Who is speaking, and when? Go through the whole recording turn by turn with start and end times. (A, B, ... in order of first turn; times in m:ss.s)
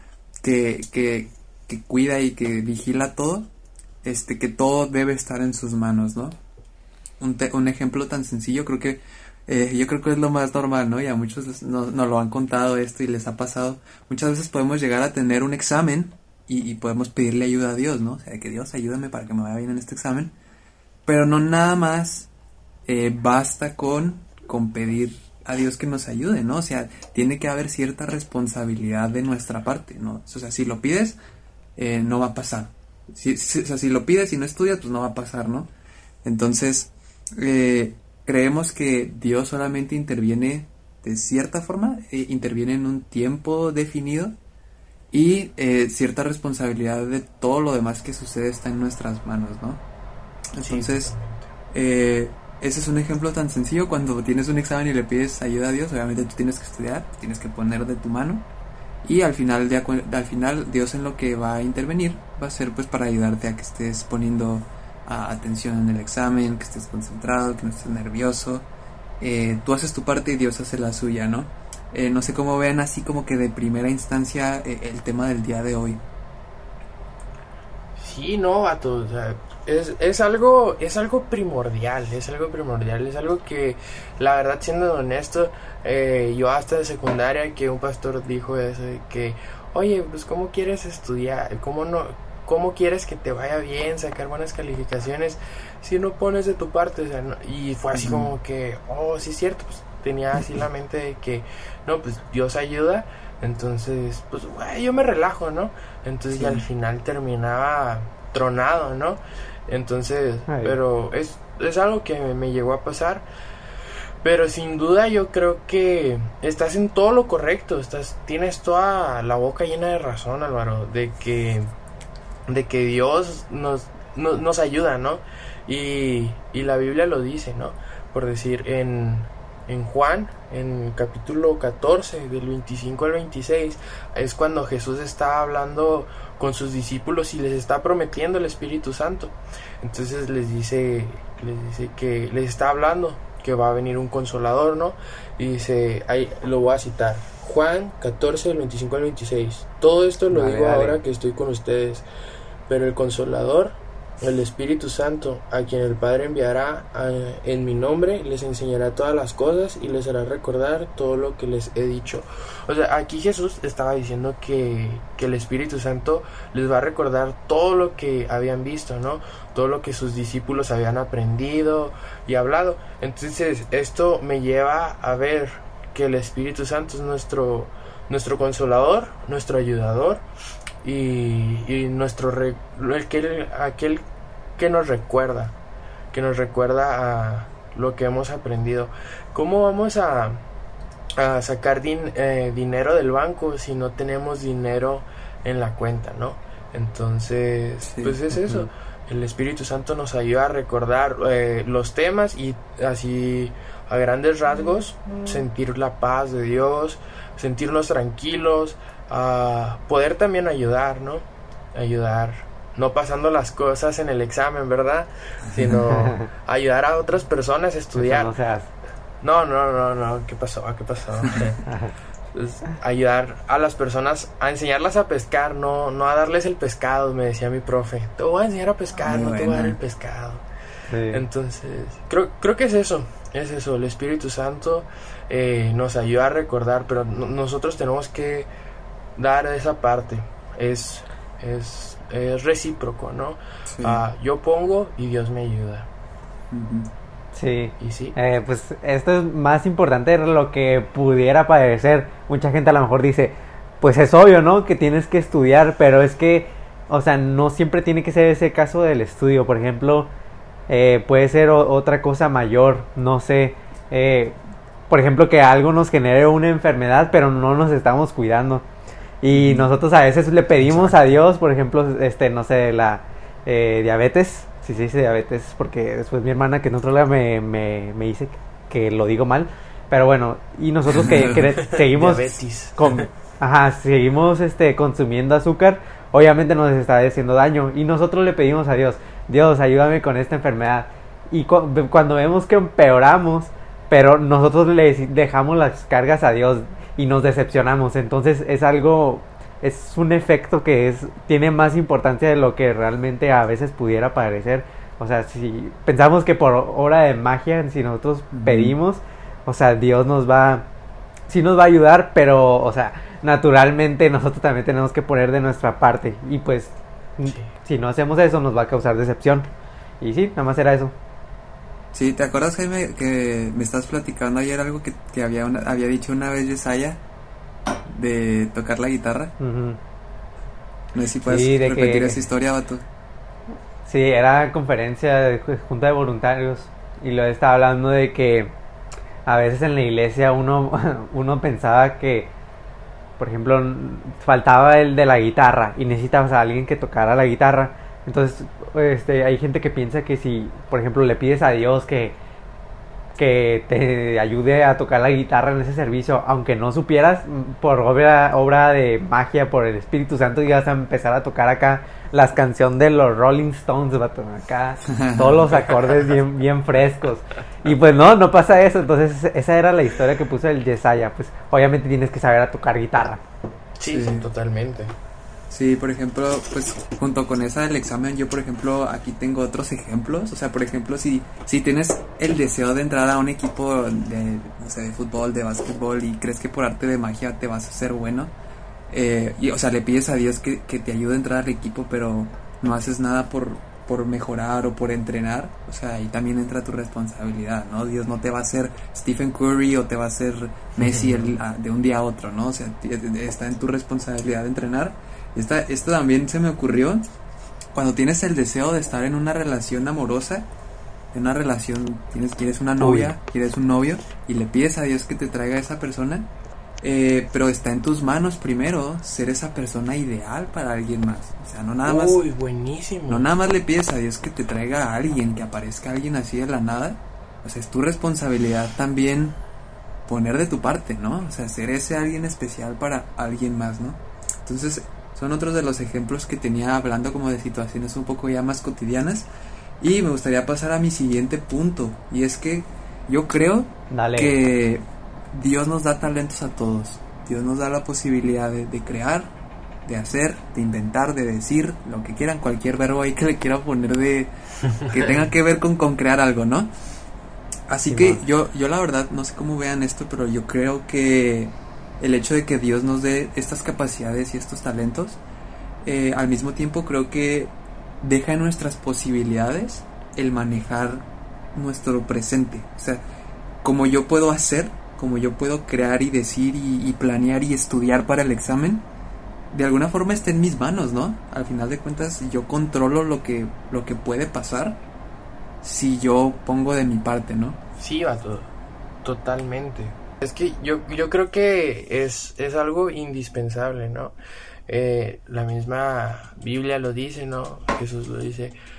0:00.4-0:03.5 A
0:04.0-0:06.4 A
0:07.2-0:20.3 A
0:21.1-0:22.3 A
0:22.9-0:31.2 A
0:31.8-0:35.7 A
0:36.2-0:44.4 A
0:45.1-0:49.8 A
0:50.5-0:51.1 A
0:50.6-0:51.5 B
0:51.7-0:58.5 A
0:59.0-1:08.7 A
1:09.2-1:16.0 A
1:18.0-1:53.3 B
1:37.9-1:38.3 A
1:46.3-1:46.7 A
1:50.5-1:50.8 C
1:54.2-2:01.7 B
2:02.5-2:32.1 B
2:30.3-2:31.0 C
2:32.7-3:00.3 B
3:00.8-3:04.0 B
3:04.6-3:05.6 B
3:06.1-3:10.4 B
3:11.2-3:38.3 B
3:17.8-3:18.7 A
3:35.4-3:35.8 A
3:35.9-3:36.3 C
3:38.0-3:38.7 C
3:39.2-3:41.6 B
3:41.7-3:42.0 C
3:42.3-3:50.4 B
3:49.0-3:49.8 A
3:50.9-3:51.2 C
3:51.1-3:58.5 B
3:59.2-4:05.9 B
4:03.7-4:04.0 A
4:06.5-4:06.9 A
4:07.3-4:20.1 C
4:07.8-4:08.2 B
4:20.7-4:24.4 C
4:24.9-4:28.7 C
4:29.2-5:10.7 C
4:29.3-4:29.7 A
4:30.7-4:31.0 A
4:40.9-4:41.4 A
4:41.7-4:43.1 B
5:08.3-5:08.8 A
5:11.3-5:19.5 C
5:17.2-5:17.5 B
5:20.0-5:21.0 C
5:21.9-5:27.0 A
5:27.9-5:29.3 A
5:29.4-5:29.8 C
5:30.9-5:32.9 A
5:31.3-5:32.2 C
5:33.8-5:38.6 C
5:39.3-5:42.3 C
5:43.2-5:52.2 C
5:53.2-6:13.2 C
6:04.9-6:05.6 A
6:13.8-6:14.9 B
6:13.9-6:14.3 A
6:15.5-6:28.3 A
6:28.9-6:47.1 A
6:47.7-6:50.5 A
6:51.1-6:56.3 A
6:52.8-6:53.1 C
6:56.8-7:02.2 A
7:01.8-7:03.3 B
7:03.1-7:09.4 A
7:10.1-7:19.3 A
7:19.8-7:29.3 A
7:23.9-7:24.4 C
7:29.8-7:34.3 A
7:34.9-7:36.7 A
7:37.7-7:45.2 A
7:37.9-7:38.2 C
7:45.8-7:53.0 A
7:53.6-7:58.9 A
7:59.5-8:04.8 A
8:05.6-8:07.6 A
8:07.8-8:08.5 B
8:09.0-8:14.2 B
8:14.7-8:18.6 B